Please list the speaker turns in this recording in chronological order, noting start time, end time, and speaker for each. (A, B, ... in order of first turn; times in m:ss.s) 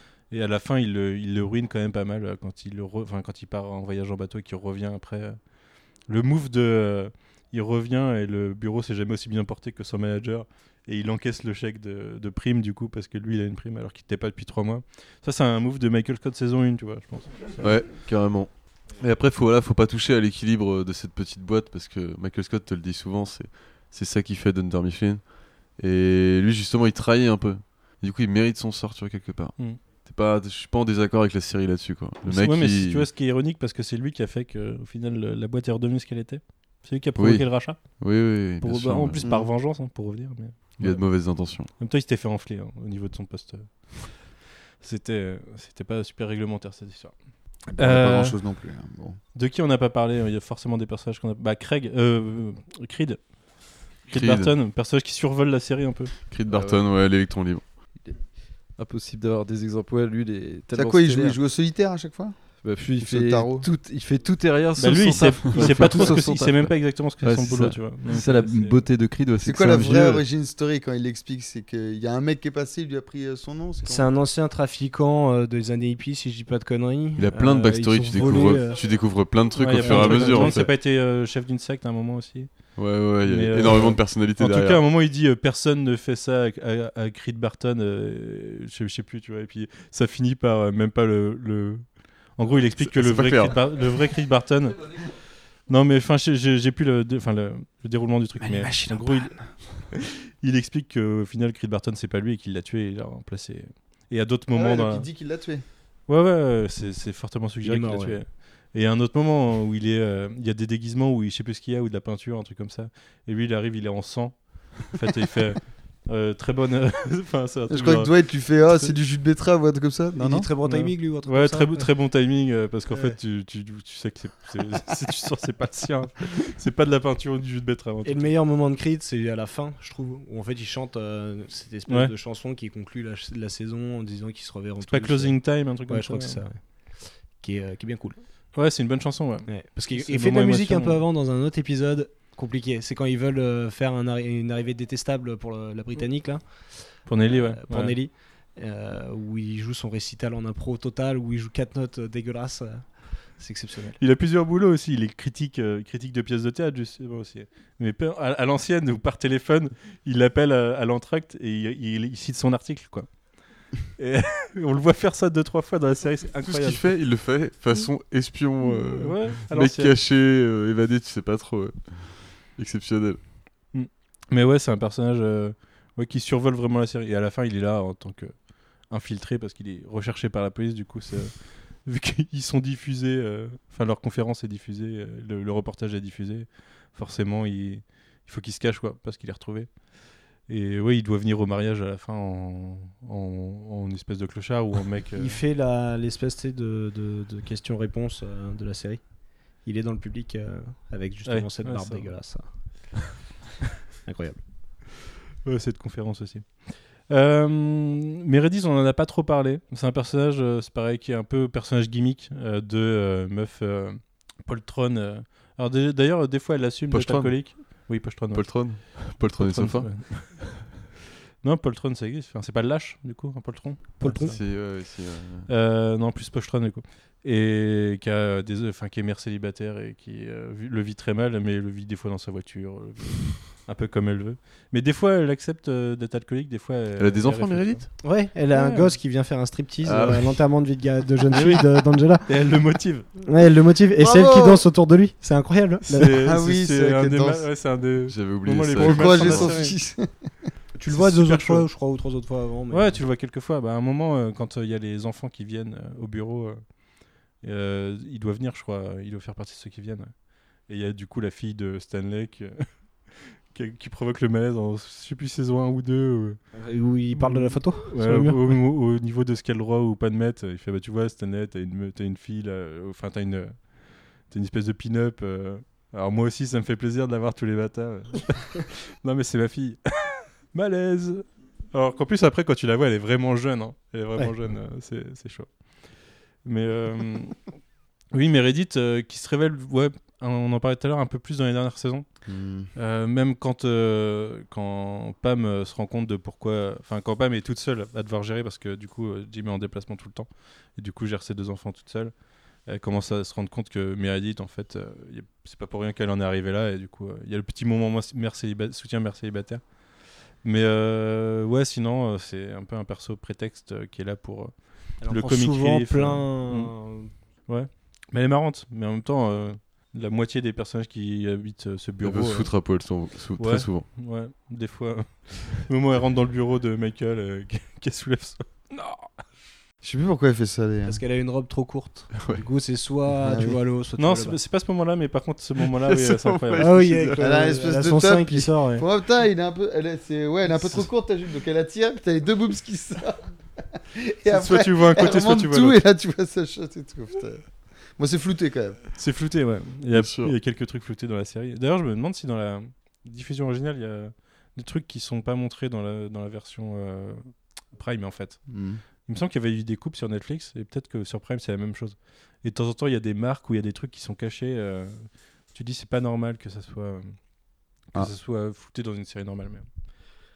0:00.3-0:17.7 A
0:17.6-0:33.1 B
0:32.2-0:48.4 A
0:37.2-0:39.2 B
0:39.2-0:39.5 C
0:40.8-0:41.7 B
0:47.7-0:49.2 C
0:49.3-0:53.4 A
0:54.0-0:56.1 A
0:54.1-0:54.5 B
0:56.3-0:57.8 B
0:56.5-0:56.9 D
0:57.9-1:01.4 D
1:00.7-1:03.7 C
1:02.6-1:10.2 D
1:04.8-1:08.9 A
1:05.6-1:05.9 B
1:09.4-1:14.1 C
1:13.8-1:19.0 E
1:17.2-1:20.7 B
1:19.6-1:39.1 A
1:19.7-1:20.6 E
1:22.8-1:24.8 B
1:32.7-1:34.0 B
1:38.8-1:39.3 C
1:39.9-1:45.1 A
1:44.5-1:45.6 C
1:46.1-1:58.9 A
1:47.6-1:48.2 E
1:57.7-2:00.5 C
2:00.2-2:02.0 E
2:00.6-2:08.3 A
2:02.9-2:03.2 E
2:08.0-2:18.2 E
2:11.9-2:12.1 A
2:14.9-2:16.4 A
2:18.5-2:21.0 A
2:19.5-2:34.0 E
2:27.0-2:28.0 A
2:34.0-2:46.9 A
2:46.4-2:53.2 B
2:48.8-2:50.0 A
2:53.7-3:09.8 A
3:10.4-3:15.4 A
3:15.1-3:22.4 E
3:21.2-3:22.1 A
3:24.0-3:24.4 E
3:25.4-3:40.8 A
3:36.9-3:40.2 B
3:41.4-3:44.7 A
3:44.0-3:44.4 E
3:44.2-3:45.5 B
3:45.5-3:58.0 A
3:57.0-3:57.8 B
3:58.0-4:02.3 E
3:58.5-3:58.9 A
3:59.8-4:00.4 B
4:01.3-4:01.7 A
4:02.2-4:03.1 A
4:03.3-4:06.2 E
4:04.0-4:04.6 C
4:05.8-4:09.7 A
4:06.2-4:07.5 C
4:08.1-4:09.5 B
4:08.8-4:10.3 C
4:10.8-4:13.0 E
4:10.9-4:11.7 A
4:12.7-4:16.8 A
4:17.4-4:22.7 A
4:23.5-4:26.4 A
4:26.5-4:28.6 E
4:27.1-4:45.5 A
4:46.4-4:47.4 A
4:48.1-4:52.1 A
4:52.2-4:52.7 C
4:52.7-5:02.1 A
5:02.6-5:09.6 A
5:10.4-5:16.7 A
5:15.0-5:17.1 E
5:17.5-5:22.5 A
5:22.0-5:23.9 B
5:23.4-5:29.1 A
5:29.8-5:31.0 C
5:30.9-5:34.4 E
5:32.2-5:32.4 B
5:33.2-5:33.6 C
5:34.0-5:36.9 A
5:35.6-5:37.3 B
5:36.6-5:38.8 E
5:37.2-5:48.8 C
5:44.2-5:45.8 A
5:49.0-5:58.5 A
5:49.9-5:50.3 B
5:58.5-5:58.8 C
5:59.0-6:07.2 A
6:07.9-6:09.7 A